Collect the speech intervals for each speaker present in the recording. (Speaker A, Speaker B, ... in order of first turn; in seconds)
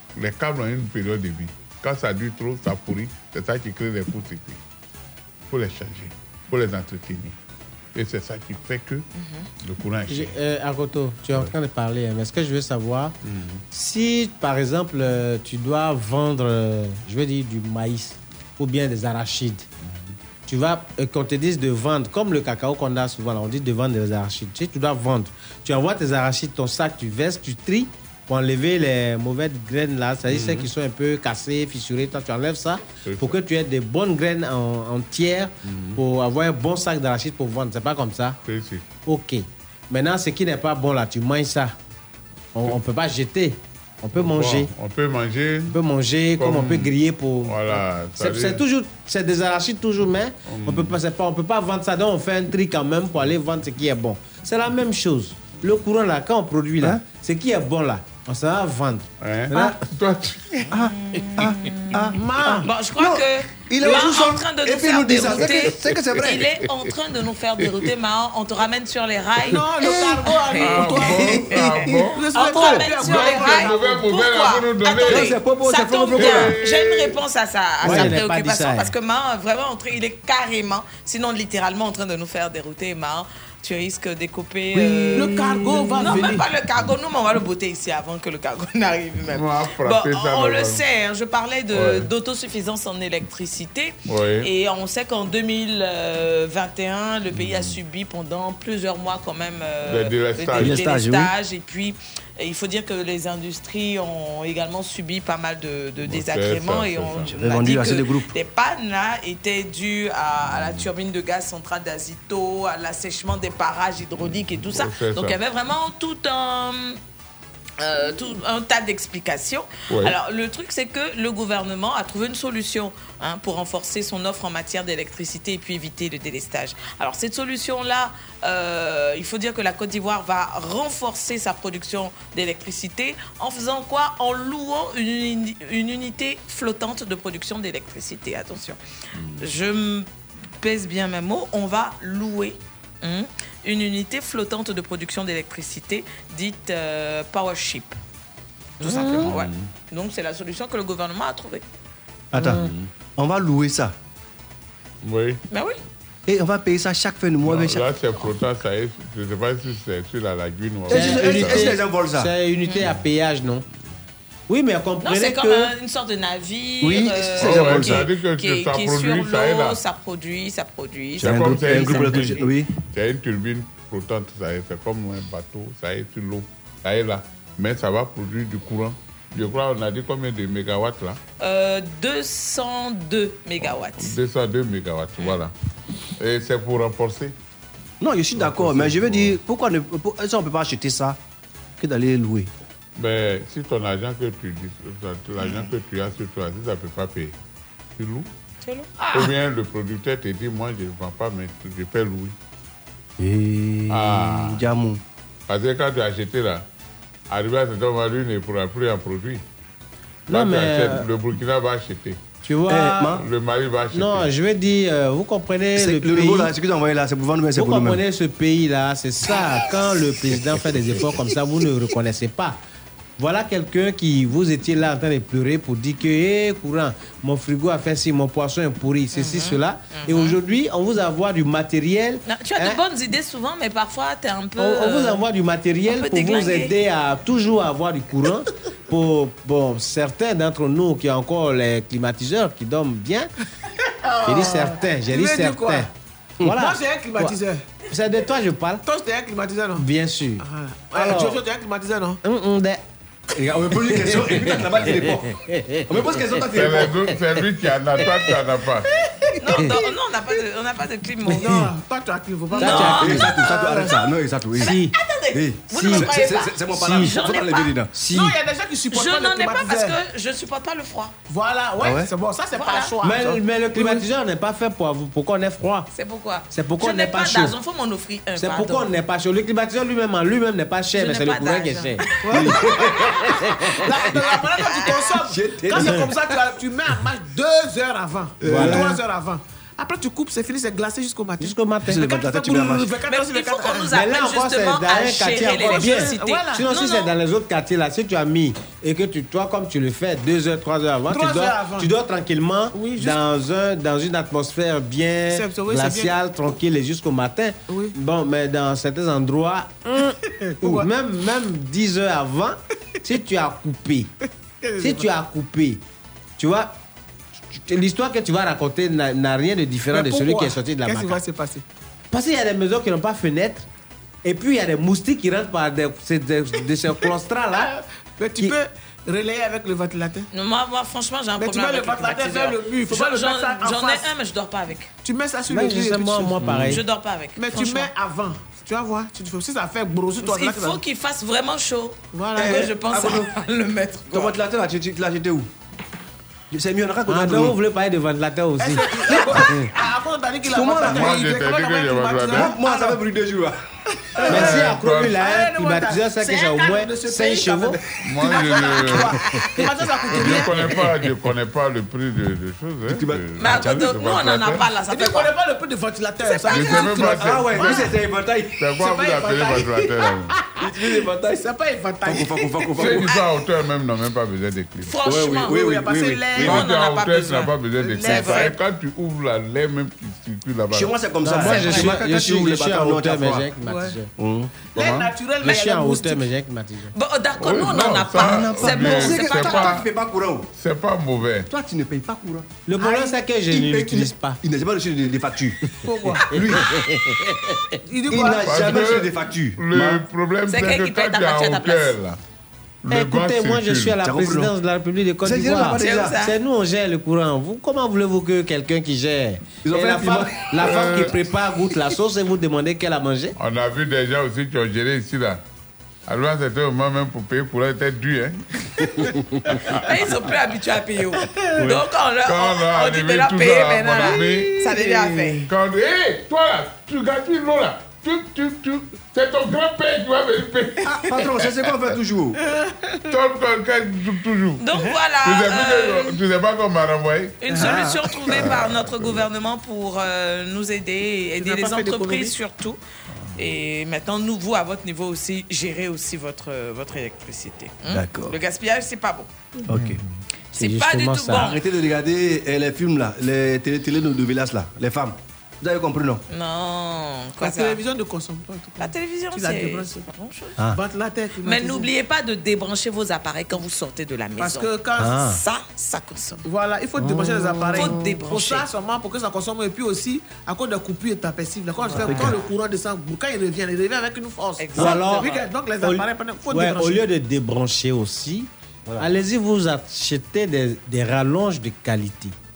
Speaker A: 0.2-4.6, 5.5-7.4, 8.0-9.1, 9.6-10.4, 13.3-13.6, 33.0-33.4, 38.5-38.9, 44.2-45.8, 46.4-46.9, 47.4-48.6, 50.5-51.0, 59.2-60.6, 70.6-75.3, 76.1-77.2, 89.3-90.8, 91.7-92.1, 94.1-94.5, 97.4-97.7, 99.8-100.8, 106.0-107.4, 114.7-115.4, 119.9-120.2, 155.0-155.4, 157.4-161.7, 167.4-169.8, 171.2-181.2, 184.0-185.5, 186.2-187.3, 188.3-189.4, 193.0-197.3, 198.0-198.3, 199.1-202.3, 203.9-204.7, 205.5-206.7, 207.3-209.4, 210.3-212.2, 213.1-214.3, 256.5-258.9, 350.8-352.6, 354.3-355.2, 358.1-359.2, 360.1-364.7, 366.5-367.9, 368.6-370.4, 372.8-375.0, 376.4-381.0, 387.4-389.9, 390.6-391.5, 398.4-402.2, 402.8-404.0, 410.6-411.2, 413.4-415.4, 416.1-418.4, 419.7-420.2, 422.2-424.6, 425.5-430.9, 433.1-434.6, 435.2-437.5, 438.3-439.3
Speaker B: 9.2-9.5, 61.1-117.0, 117.8-138.8, 139.4-140.1, 140.6-148.0, 148.8-151.6, 155.5-155.8, 165.0-172.5, 181.4-184.2, 229.2-230.4, 232.3-235.2, 235.9-236.7, 259.4-261.7, 262.5-263.4, 264.6-267.7, 268.9-271.1, 272.6-272.9, 275.9-278.9, 280.9-282.2, 283.9-285.2, 293.1-297.1, 330.3-334.9, 336.6-337.9, 340.2-344.4, 363.4-365.3, 374.9-375.6, 376.4-378.6, 386.9-389.8, 400.5-402.0, 405.8-406.4, 419.8-425.4, 434.6-436.2, 437.4-442.8, 443.4-449.3, 450.6-451.6, 456.3-457.8, 458.8-460.6, 461.4-466.4, 467.7-468.7, 471.9-472.4, 474.6-475.5
Speaker C: 10.1-13.2, 13.7-19.7, 20.5-38.4, 39.1-41.8, 42.5-44.7, 45.7-59.1, 77.8-78.9, 148.8-149.3, 152.3-152.7, 160.9-163.6, 164.5-165.7, 210.3-211.1, 212.4-213.1, 213.9-216.5, 217.6-222.6, 223.2-232.8, 234.6-243.3, 244.3-245.9, 246.4-247.4, 247.9-248.8, 249.8-251.4, 252.2-252.8, 254.0-256.5, 262.6-263.3, 264.6-264.9, 265.7-267.2, 267.9-268.4, 273.0-275.9, 276.5-277.5, 278.4-284.0, 285.8-286.0, 288.4-288.9, 291.4-292.1, 293.9-314.1, 314.8-315.8, 316.4-316.7, 317.5-321.2, 322.1-323.7, 324.2-327.7, 335.5-336.8, 347.1-349.6, 354.3-357.8, 381.2-384.1, 385.4-386.9, 392.7-394.4, 396.3-397.6, 402.9-413.4, 450.5-451.5, 472.1-472.3, 474.8-482.4
Speaker D: 59.5-59.8, 60.7-66.5, 69.5-70.3, 70.9-72.1, 75.1-76.6, 77.8-78.2, 84.8-85.3, 100.6-101.3, 107.4-108.3, 152.3-153.9, 156.3-157.9, 160.9-162.3, 166.8-168.1, 171.2-172.7, 188.0-191.2, 191.8-192.5, 203.2-205.0, 212.7-213.3, 215.8-218.0, 220.6-221.1, 253.3-255.4, 255.9-257.0, 262.6-264.8, 265.3-267.9, 271.8-272.1, 282.3-283.1, 285.1-286.1, 288.4-289.0, 291.9-292.9, 336.4-336.8, 342.4-343.3, 344.1-345.5, 346.5-347.6, 350.4-351.2, 352.3-353.6, 354.2-354.6, 362.9-363.9, 366.6-368.6, 370.6-371.4, 372.1-373.1, 375.1-376.7, 380.7-383.5, 384.2-385.1, 387.8-390.5, 391.5-392.5, 393.5-395.6, 396.2-396.8, 398.1-400.0, 404.0-404.5, 405.2-406.2, 409.6-410.5, 430.9-432.4, 437.5-438.6, 447.9-448.4, 449.7-450.0, 451.3-456.2, 465.0-465.4, 471.9-472.4
Speaker E: 62.1-62.7, 69.5-71.5, 72.1-74.0, 85.1-86.5, 243.8-245.9, 246.5-247.7, 248.8-249.8, 250.4-252.2, 261.3-264.0, 268.1-270.0, 271.3-274.0, 282.3-294.0, 295.6-296.7, 301.1-301.9, 302.7-303.2, 305.3-306.1, 307.7-307.9, 309.9-310.9, 314.6-315.1, 319.9-321.6, 327.6-330.3, 331.4-334.1, 335.0-336.6, 337.4-340.8, 342.1-342.6, 348.6-353.0, 354.1-360.7, 364.9-368.0, 368.8-373.0, 375.0-376.6, 377.8-378.6, 381.5-381.9, 383.6-384.0, 384.6-386.3, 392.8-393.1, 395.8-396.4, 397.9-398.7, 421.2-421.7, 424.0-425.5, 432.4-433.0, 441.4-442.3, 457.4-460.1, 460.7-461.9, 464.4-465.2, 466.4-477.0